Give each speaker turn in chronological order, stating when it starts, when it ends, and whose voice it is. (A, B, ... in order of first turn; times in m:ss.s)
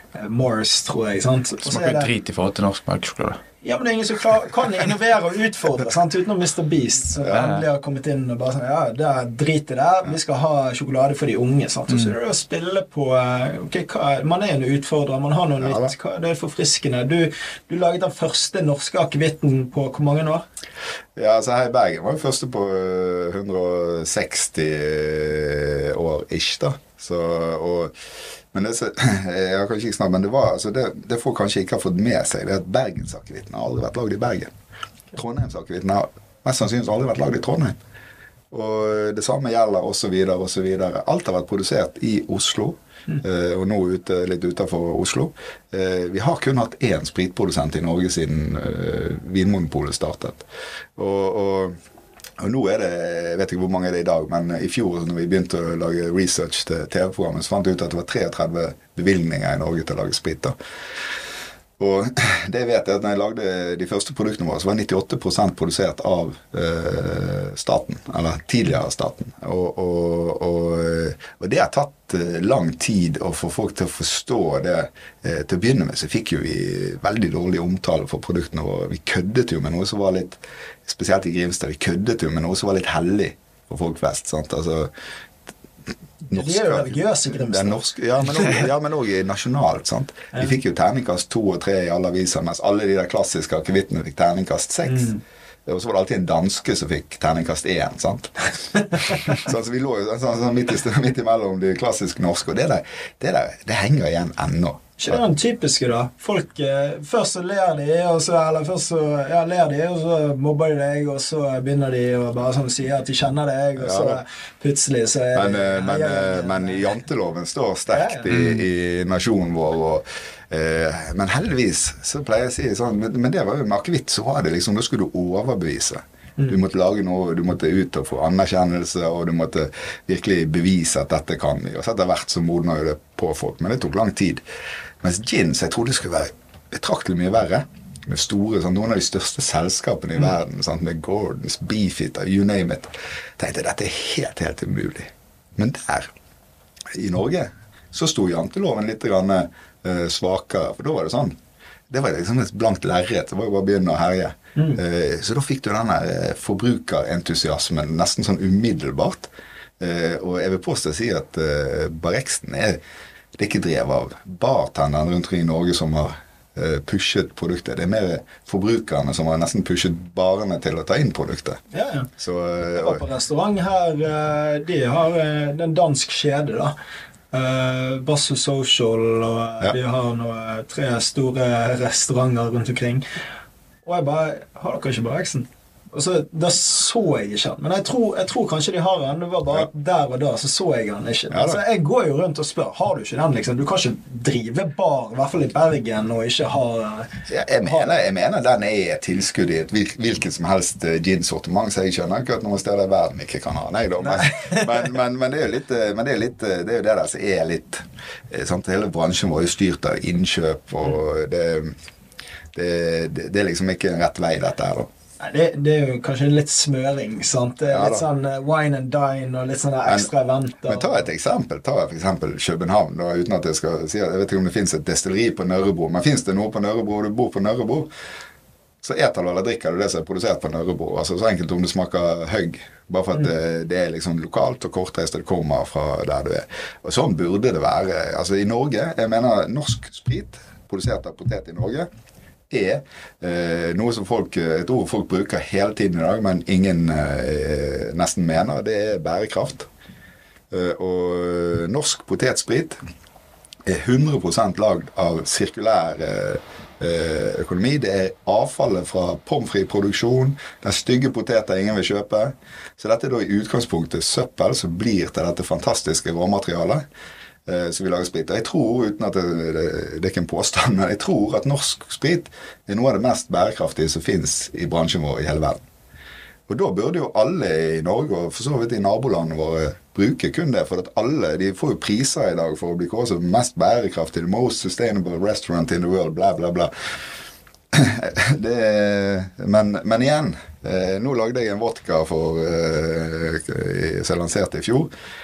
0:00.1-0:02.1 A
0:01.6-0:03.4 B
0:03.6-0:20.4 A
0:07.3-0:07.6 B
0:11.9-0:12.1 B
0:15.6-0:15.9 C
0:21.2-0:27.9 C
0:28.5-0:34.5 C
0:35.1-0:37.8 C
0:38.5-0:50.4 C
0:51.0-0:51.8 C
0:52.4-1:00.6 C
1:01.8-1:24.9 C
1:26.3-1:35.1 C
1:26.3-1:28.7 A
1:34.9-1:35.2 A
1:35.6-1:45.2 C
1:45.0-1:56.9 A
1:53.8-1:54.2 C
1:55.3-2:14.4 C
1:57.9-1:58.3 A
1:58.3-1:58.6 B
2:15.0-2:26.1 C
2:26.9-2:31.4 C
2:31.9-2:39.3 C
2:39.8-2:42.8 C
2:43.4-2:51.6 C
2:51.7-2:52.1 A
2:52.2-2:53.0 C
2:52.7-2:56.7 A
2:57.3-3:03.0 A
3:03.8-3:17.9 A
3:11.3-3:11.6 C
3:17.3-3:31.7 C
3:24.2-3:24.6 A
3:32.5-3:34.9 C
3:35.2-3:41.0 A
3:37.7-3:38.0 C
3:39.8-3:40.1 C
3:40.6-3:47.9 C
3:48.8-4:01.9 C
4:02.5-4:09.7 C
4:10.5-4:12.8 C
4:13.6-4:26.8 C
4:27.4-4:35.6 C
4:36.5-4:46.7 C
4:47.7-4:54.9 C